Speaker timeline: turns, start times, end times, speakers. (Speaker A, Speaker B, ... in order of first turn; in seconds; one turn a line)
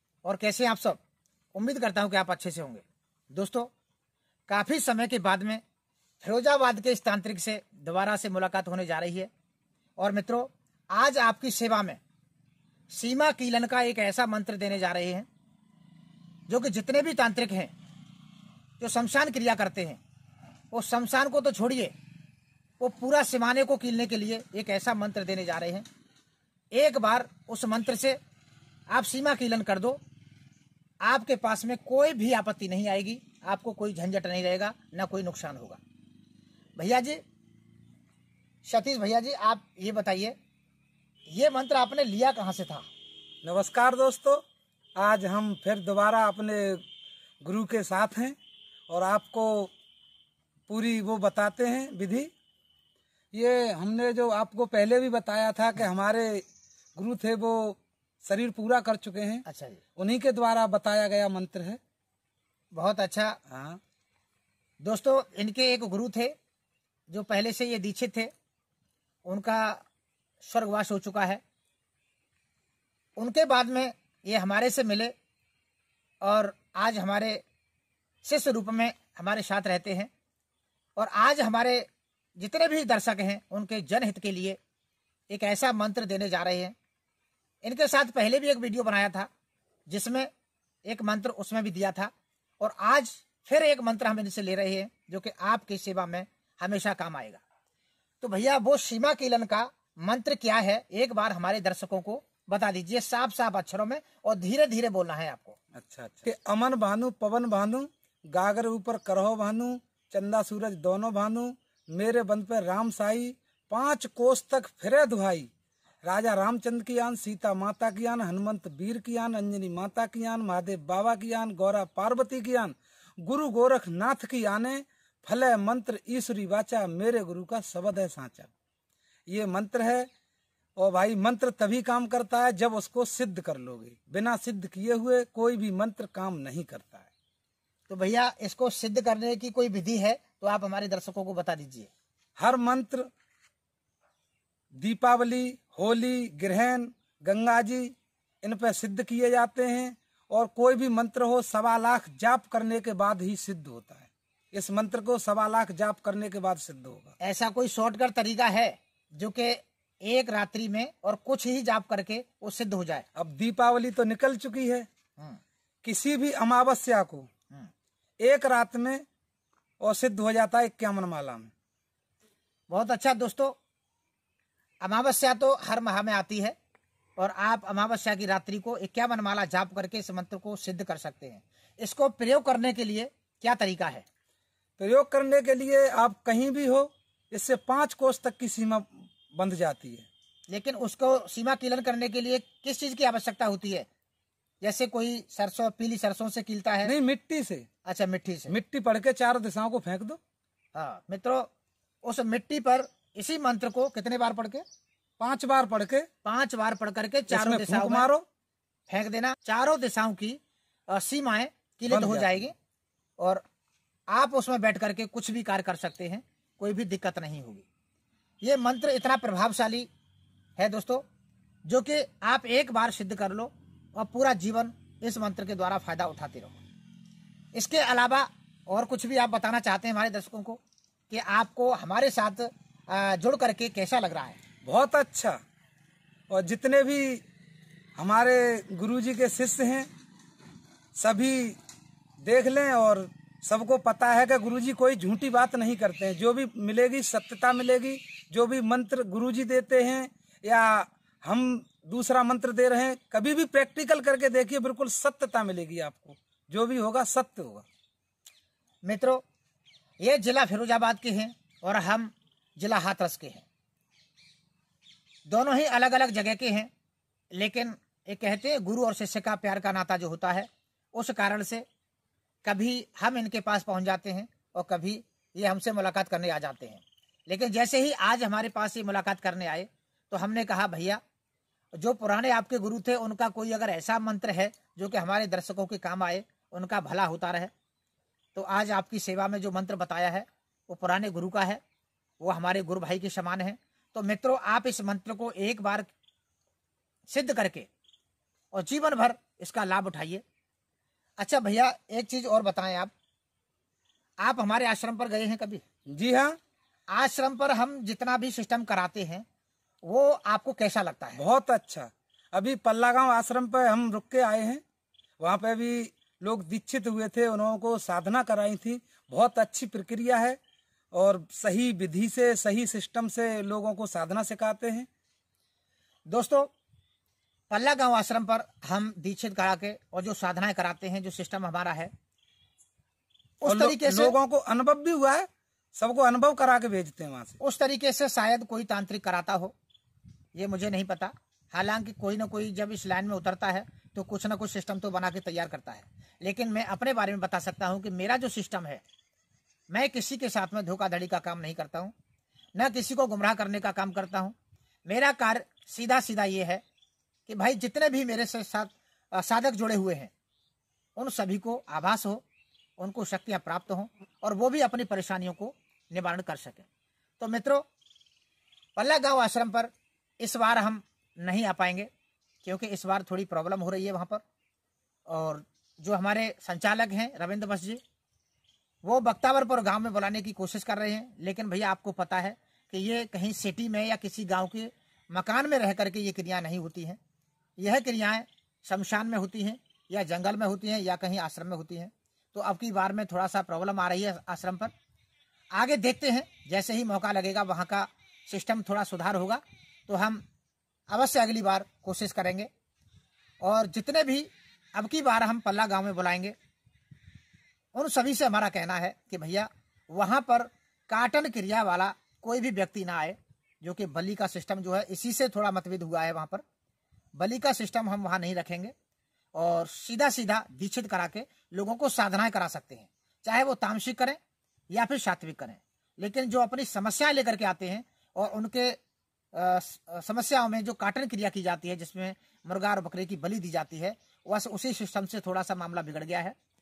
Speaker A: 0.2-1.0
Speaker A: 1.6-3.7
Speaker A: 4.5-5.6
Speaker A: 6.2-9.3
Speaker A: 10.0-12.0
Speaker A: 12.9-15.3
Speaker A: 16.5-17.7
Speaker A: 18.8-20.0
Speaker A: 20.7-21.9
Speaker A: 22.8-25.9
Speaker A: 26.7-28.2
Speaker A: 28.9-30.0
Speaker A: 31.0-35.8
Speaker A: 36.8-37.2
Speaker A: 38.6-40.4
Speaker A: 41.3-42.9
Speaker B: 43.4-44.4
Speaker B: 45.0-46.8
Speaker B: 47.4-48.4
Speaker B: 48.9-49.7
Speaker B: 50.7-52.3
Speaker B: 53.3-56.4
Speaker B: 57.0-59.4
Speaker A: 59.5-59.8
Speaker B: 60.0-61.8
Speaker A: 62.7-63.4
Speaker B: 63.5-63.8
Speaker A: 64.8-66.3
Speaker A: 67.1-68.3
Speaker A: 69.2-69.8
Speaker A: 70.4-71.4
Speaker A: 73.2-75.1
Speaker A: 76.2-77.4
Speaker A: 78.2-80.1
Speaker A: 81.0-84.6
Speaker A: 85.3-86.8
Speaker A: 87.6-89.3
Speaker A: 89.9-90.3
Speaker A: 90.9-97.4
Speaker A: 98.2-105.6
Speaker B: 105.8-115.5
Speaker B: 116.0-128.5
Speaker B: 129.3-130.1
Speaker B: 130.8-137.1
Speaker A: 137.9-141.9
Speaker B: 142.4-143.1
Speaker B: 144.8-157.2
Speaker A: 157.2-163.1
Speaker B: 163.2-164.9
Speaker B: 165.8-167.3
Speaker B: 168.2-169.0
Speaker B: 169.8-171.5
Speaker A: 172.7-173.6
Speaker A: 174.8-176.6
Speaker A: 177.2-184.1
Speaker B: 184.8-190.1
Speaker A: 190.5-193.9
Speaker A: 194.6-196.9
Speaker B: 196.9-197.7
Speaker A: 197.8-198.6
Speaker B: 198.5-200.2
Speaker A: 200.7-201.5
Speaker A: 202.0-204.6
Speaker B: 205.2-206.1
Speaker A: 206.2-208.1
Speaker B: 207.3-208.2
Speaker A: 208.9-212.5
Speaker B: 211.9-212.4
Speaker A: 214.1-217.7
Speaker A: 218.4-219.9
Speaker A: 220.6-221.0
Speaker A: 221.7-226.6
Speaker A: 227.5-234.4
Speaker B: 234.7-235.4
Speaker B: 236.3-237.2
Speaker B: 238.0-239.9
Speaker B: 241.0-241.6
Speaker B: 242.2-257.6
Speaker A: 258.8-259.2
Speaker A: 260.0-263.4
Speaker A: 265.3-266.7
Speaker A: 267.3-271.6
Speaker A: 272.4-281.0
Speaker A: 281.8-287.5
Speaker A: 288.4-291.6
Speaker A: 292.2-295.9
Speaker A: 297.1-297.7
Speaker A: 298.5-300.2
Speaker A: 301.2-302.9
Speaker A: 304.2-305.6
Speaker B: 305.9-306.4
Speaker A: 306.9-309.2
Speaker A: 309.8-311.2
Speaker B: 311.2-314.6
Speaker B: 315.2-320.4
Speaker B: 320.9-324.9
Speaker A: 326.1-326.5
Speaker A: 327.5-331.9
Speaker A: 333.4-334.2
Speaker B: 333.5-337.4
Speaker A: 337.4-339.5
Speaker A: 340.3-348.8
Speaker A: 349.7-351.9
Speaker A: 352.6-354.4
Speaker A: 354.9-356.6
Speaker A: 357.3-360.1
Speaker A: 361.0-362.2
Speaker A: 362.8-366.7
Speaker A: 367.2-367.6
Speaker A: 368.8-371.9
Speaker A: 372.4-374.2
Speaker A: 375.1-377.8
Speaker A: 378.8-387.0
Speaker A: 387.6-394.7
Speaker A: 395.5-400.2
Speaker A: 400.9-402.5
Speaker A: 403.4-406.4
Speaker A: 407.7-416.4
Speaker A: 417.2-418.7
Speaker A: 419.3-424.2
Speaker A: 424.7-428.8
Speaker A: 429.3-436.4